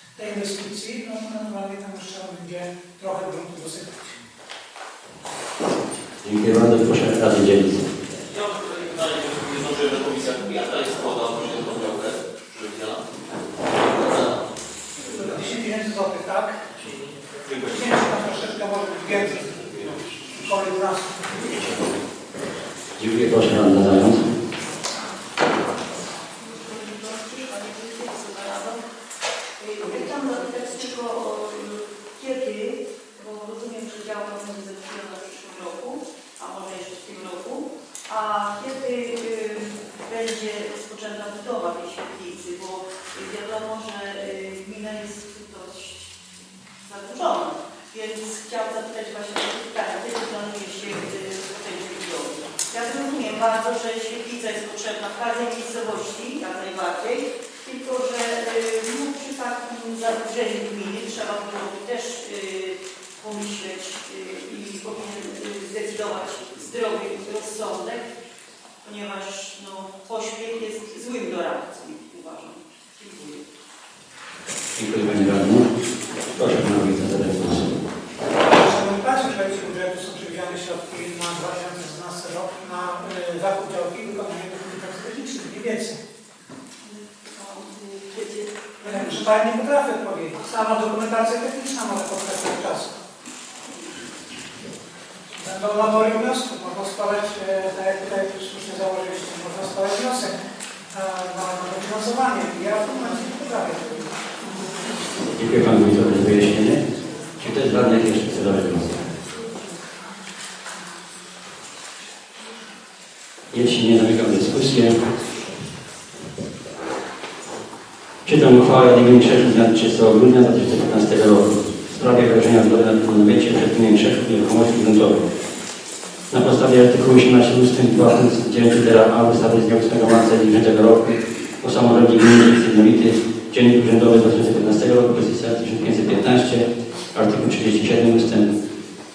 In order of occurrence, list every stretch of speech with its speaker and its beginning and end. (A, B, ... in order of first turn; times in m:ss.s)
0:00.2-0:04.2 A
0:06.2-0:07.9 B
0:08.3-0:13.0 C
0:13.7-0:14.4 C
0:15.0-0:16.6 A
0:17.5-0:19.8 A
0:20.4-0:21.5 A
0:23.0-0:24.4 B
0:26.3-0:28.8 D
0:29.6-0:46.1 D
0:46.8-1:08.1 D
1:08.8-1:13.4 D
1:14.7-1:15.7 B
1:16.3-1:17.7 B
1:18.4-1:26.0 A
1:26.8-1:28.6 D
1:28.8-1:33.0 A
1:35.4-1:40.4 A
1:40.9-1:44.7 A
1:45.3-1:46.8 B
1:47.4-1:49.0 B
1:53.5-1:55.1 B
1:58.2-2:05.3 B
2:06.3-2:18.6 B